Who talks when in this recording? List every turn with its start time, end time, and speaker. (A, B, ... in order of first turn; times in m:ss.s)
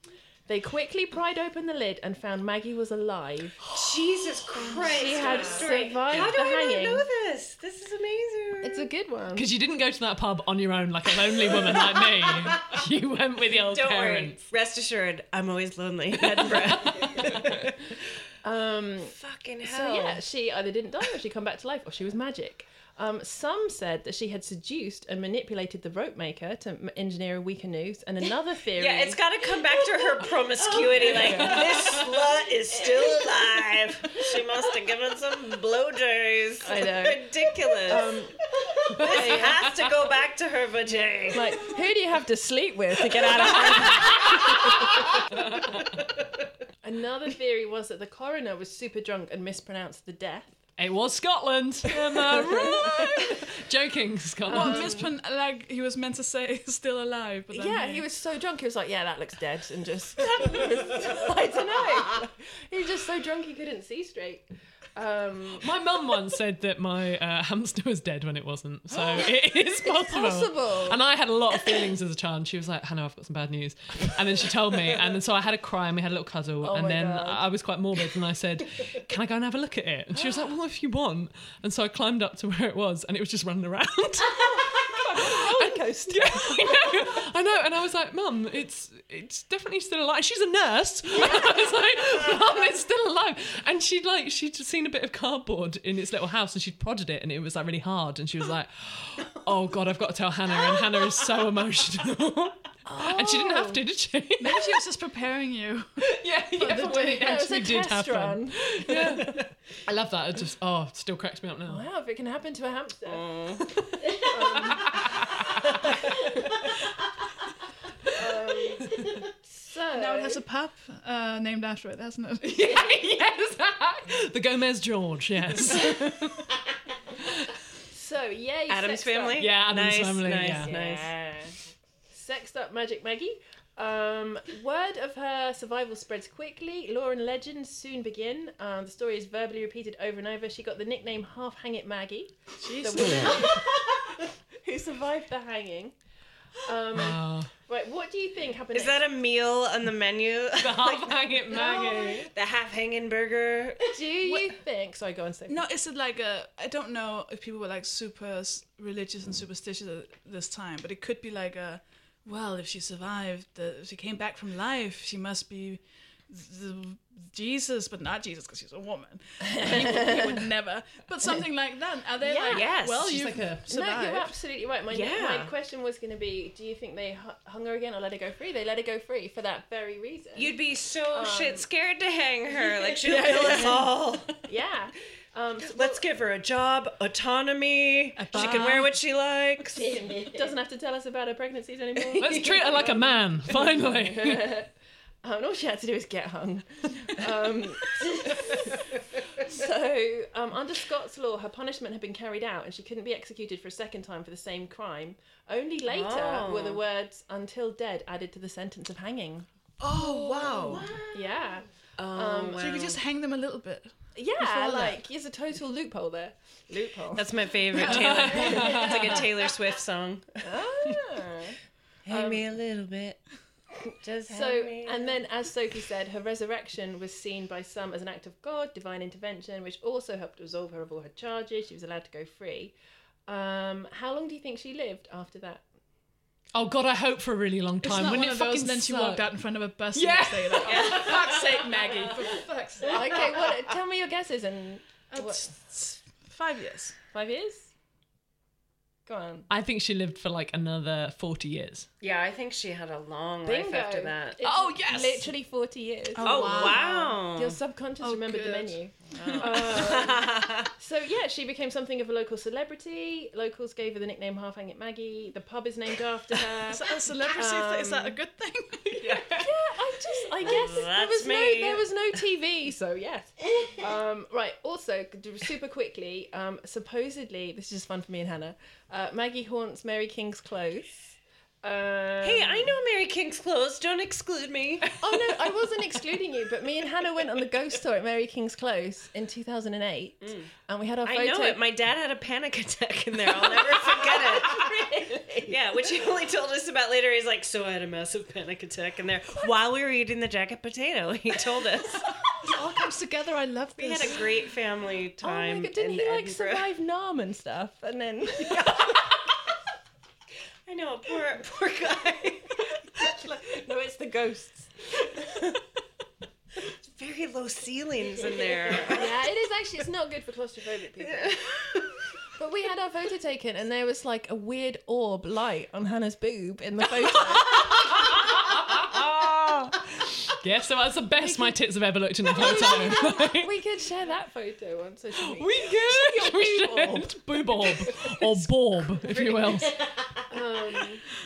0:00.5-0:03.6 A
0:03.7-0:08.9 B
0:04.6-0:07.1 A
0:08.6-0:09.5 A
0:09.4-0:14.4 C
0:13.7-0:17.7 B
0:18.4-0:29.2 A
0:19.1-0:20.2 B
0:28.8-0:38.1 B
0:30.0-0:32.0 A
0:36.6-0:38.4 A
0:38.8-0:41.6 B
0:38.9-0:39.7 A
0:41.3-0:45.2 A
0:46.8-0:50.6 A
0:50.8-0:55.0 C
0:52.1-0:53.3 A
0:52.5-0:53.1 D
0:54.5-0:55.1 A
0:54.5-0:58.0 D
0:57.5-1:05.7 A
1:05.6-1:44.7 C
1:09.0-1:09.3 A
1:09.8-1:11.0 A
1:16.6-1:17.4 A
1:24.4-1:27.2 A
1:31.1-1:31.7 A
1:42.8-1:43.8 A
1:44.4-1:45.9 D
1:46.0-1:51.8 C
1:46.6-1:47.4 D
1:46.6-1:49.3 A
1:51.7-1:53.3 A
1:53.1-1:53.6 B
1:53.9-1:55.6 C
1:54.1-1:55.0 A
1:58.1-2:00.4 A
2:00.0-2:02.8 D
2:02.5-2:06.5 C
2:07.9-2:09.5 A
2:08.7-2:11.1 B
2:09.4-2:10.7 C
2:10.6-2:11.6 A
2:12.1-2:26.0 A
2:22.6-2:23.7 D
2:26.6-2:29.0 A
2:27.0-2:27.5 C
2:28.7-2:33.9 B
2:30.6-2:32.3 C
2:31.5-2:32.1 A
2:33.9-2:35.6 A
2:34.2-2:34.5 D
2:35.5-2:54.3 D
2:49.4-2:50.5 A
2:52.2-2:52.7 A
2:52.5-2:53.1 B
2:53.0-2:53.6 C
2:53.7-3:00.5 A
2:54.9-2:55.5 B
3:00.4-3:04.3 B
3:01.1-3:01.7 A
3:03.0-3:03.8 A
3:03.1-3:03.8 D
3:04.4-3:06.0 A
3:05.6-3:09.9 B
3:08.2-3:09.0 D
3:09.7-3:14.7 A
3:12.2-3:14.5 C
3:15.2-3:32.9 A
3:25.9-3:26.8 B
3:29.8-3:31.0 D
3:30.7-3:31.1 B
3:32.0-3:33.0 B
3:32.6-3:35.0 D
3:34.2-3:39.3 A
3:37.2-3:40.4 B
3:37.8-3:39.2 C
3:40.4-3:41.6 A
3:42.0-3:43.2 B
3:42.1-3:42.4 A
3:44.0-3:45.2 B
3:44.3-3:52.7 A
3:53.3-3:55.6 A
3:56.5-3:59.3 C
3:57.8-4:03.5 D
3:59.9-4:01.4 C
4:00.6-4:01.0 A
4:00.7-4:01.4 B
4:02.9-4:05.5 A
4:05.1-4:07.0 D
4:07.1-4:07.7 A
4:09.1-4:09.5 A
4:09.5-4:11.9 C
4:12.0-4:14.4 B
4:13.4-4:28.2 A
4:14.4-4:15.3 C
4:16.1-4:17.1 D
4:16.2-4:17.6 B
4:18.0-4:20.1 D
4:19.1-4:20.7 B
4:26.6-4:29.3 D
4:29.0-4:29.4 C
4:29.3-4:42.7 A
4:30.4-4:31.9 B
4:42.2-4:44.9 B
4:45.0-4:51.6 A
4:50.2-4:50.5 B
4:51.0-5:02.1 B
4:53.5-4:55.6 A
5:02.3-5:04.3 D
5:03.8-5:06.7 B
5:05.2-5:09.0 A
5:10.7-5:12.6 B
5:13.0-5:15.6 A
5:16.8-5:19.2 B
5:18.8-5:27.7 A
5:27.5-5:33.5 C
5:31.2-5:31.6 A
5:32.3-5:41.0 A
5:35.2-5:39.9 C